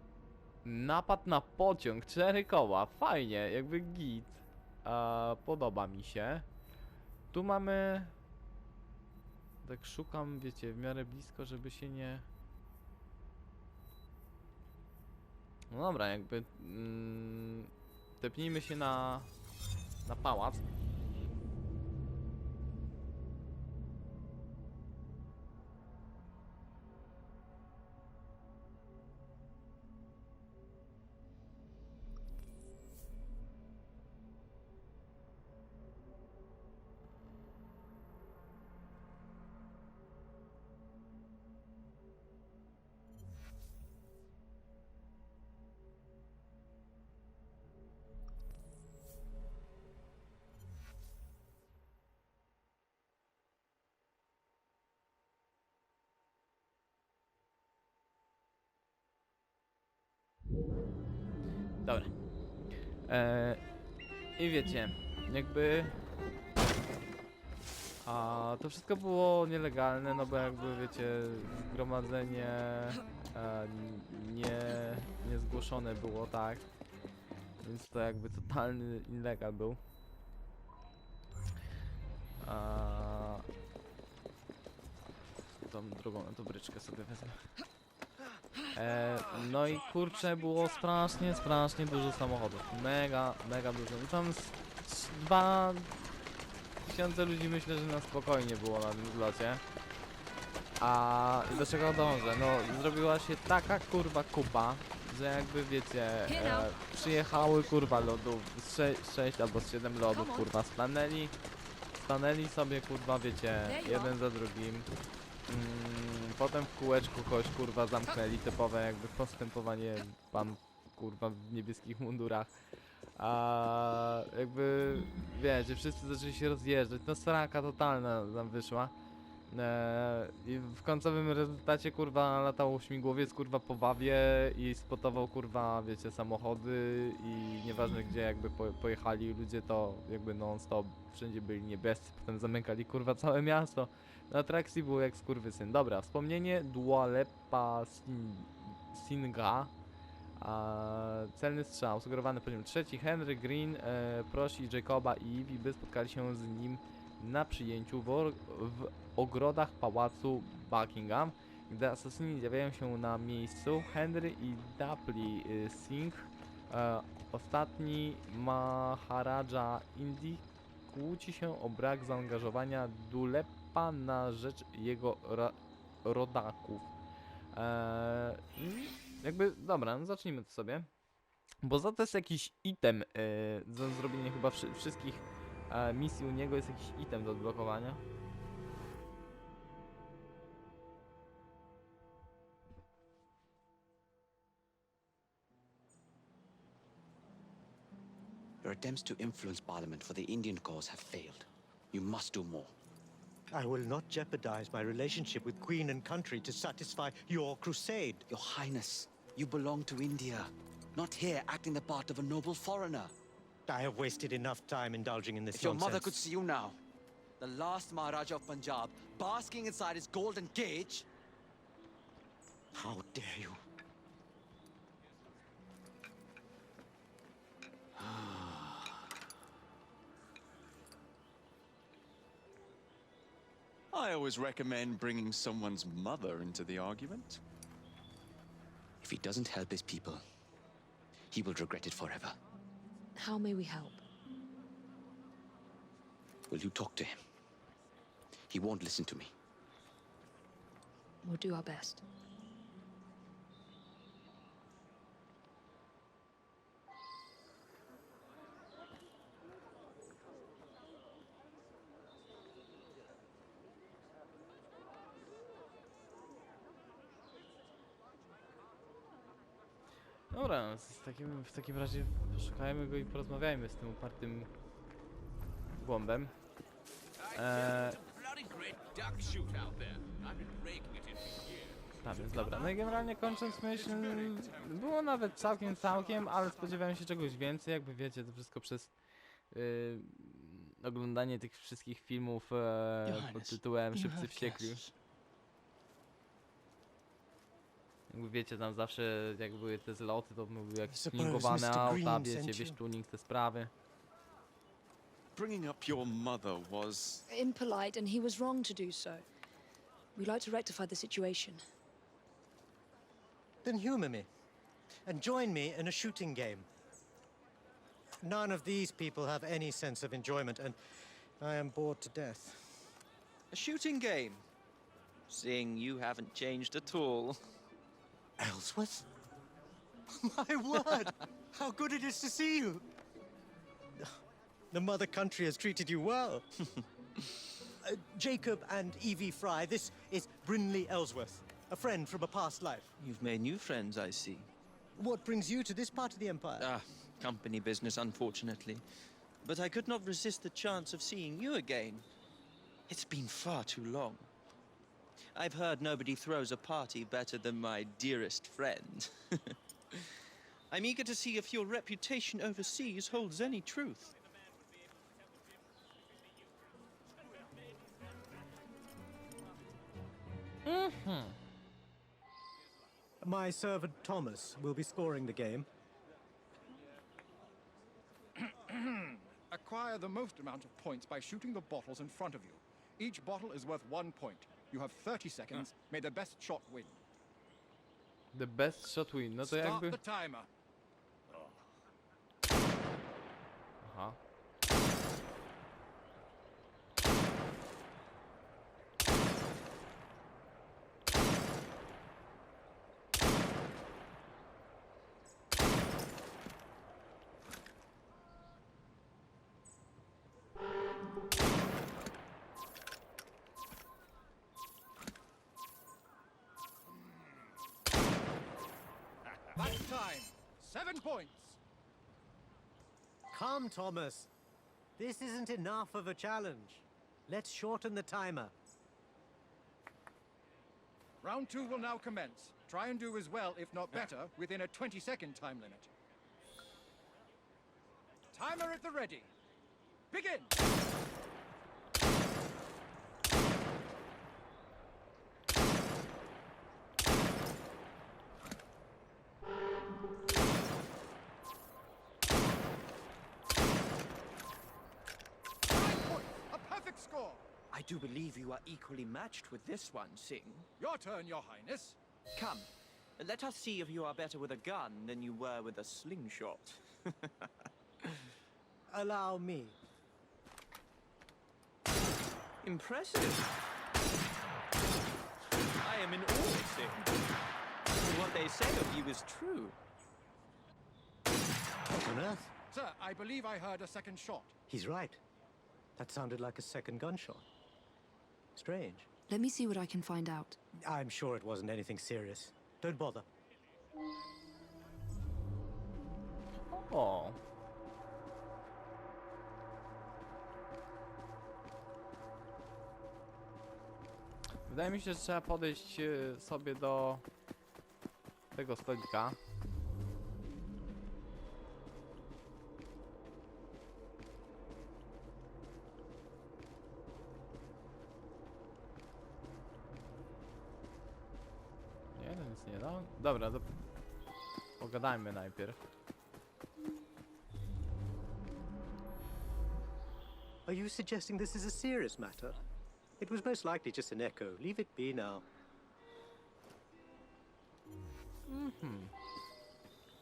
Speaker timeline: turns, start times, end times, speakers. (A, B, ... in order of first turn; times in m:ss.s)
0:00.6-0:06.5 A
0:07.3-0:08.1 A
0:09.6-0:12.2 A
0:15.7-0:19.3 A
0:20.0-0:20.6 A
1:01.8-1:02.1 A
1:03.1-1:03.6 A
1:04.4-1:06.0 A
1:08.0-1:16.6 A
1:17.6-1:19.8 A
1:22.4-1:23.4 A
1:25.6-1:27.5 A
1:28.7-1:36.0 A
1:36.8-1:39.6 A
1:40.8-1:51.3 A
1:46.3-1:46.8 B
1:50.1-1:50.5 B
1:52.0-1:54.9 A
1:53.6-1:54.1 B
1:55.5-2:02.5 A
2:03.2-2:08.9 A
2:09.5-2:29.7 A
2:30.4-2:56.9 A
2:57.5-3:00.9 A
3:01.6-3:08.0 A
3:18.6-3:22.7 C
3:23.5-3:28.2 D
3:28.3-3:33.1 C
3:33.7-3:36.3 D
3:35.5-3:36.8 C
3:37.4-3:41.1 C
3:42.7-3:43.6 D
3:53.9-3:57.4 E
3:59.0-4:00.2 C
4:01.3-4:02.4 C
4:03.2-4:04.0 B
4:06.5-4:07.2 C
4:08.5-4:09.3 C
4:11.2-4:12.0 B
4:30.3-4:34.5 A
4:35.8-4:36.3 A
4:37.3-4:38.0 A
4:42.0-4:48.9 A
4:49.5-4:54.8 A
4:53.1-4:54.9 C
4:58.1-5:03.7 A
5:00.9-5:02.8 D
5:05.3-5:07.2 E
5:07.3-5:09.2 B
5:10.2-5:11.6 B
5:13.6-5:14.3 D
5:15.1-5:16.7 D
5:18.2-5:20.8 D
5:21.4-5:22.9 D
5:23.5-5:24.4 F
5:25.3-5:27.4 F
5:28.4-5:29.1 D
5:30.1-5:32.9 D
5:34.7-5:36.5 D
5:37.8-5:42.9 D
5:43.0-5:44.5 F
5:45.0-5:46.7 D
5:46.6-5:48.8 F
5:49.4-5:52.0 F
5:52.9-5:54.3 F
5:55.3-6:00.0 F
6:00.7-6:04.1 F
6:10.6-6:11.4 A
6:13.2-6:15.7 D
6:18.4-6:27.0 G
6:28.3-6:30.0 A
6:29.4-6:30.5 G
6:33.8-6:34.2 A
6:59.6-7:01.6 G
7:03.3-7:04.3 D
7:05.0-7:08.5 D
7:11.2-7:15.9 G
7:18.3-7:19.3 G
7:20.1-7:20.5 G
7:35.7-7:37.4 G
7:37.7-7:40.7 F
7:40.8-7:42.0 G
7:42.3-7:47.3 F
7:48.9-7:49.8 D
7:52.6-7:53.5 F
7:55.8-7:57.1 F
7:57.9-7:59.8 F
8:01.9-8:02.5 D
8:02.7-8:04.5 G
8:04.7-8:05.2 D
8:06.0-8:07.4 D
8:08.6-8:09.1 D
8:09.3-8:10.6 B
8:10.8-8:13.3 D
8:16.7-8:17.4 A
8:24.7-8:27.2 A
8:28.5-8:29.4 A
8:42.2-8:43.7 A
8:44.8-8:45.8 A
8:50.6-8:52.6 D
8:53.2-8:55.4 D
8:58.5-8:59.1 A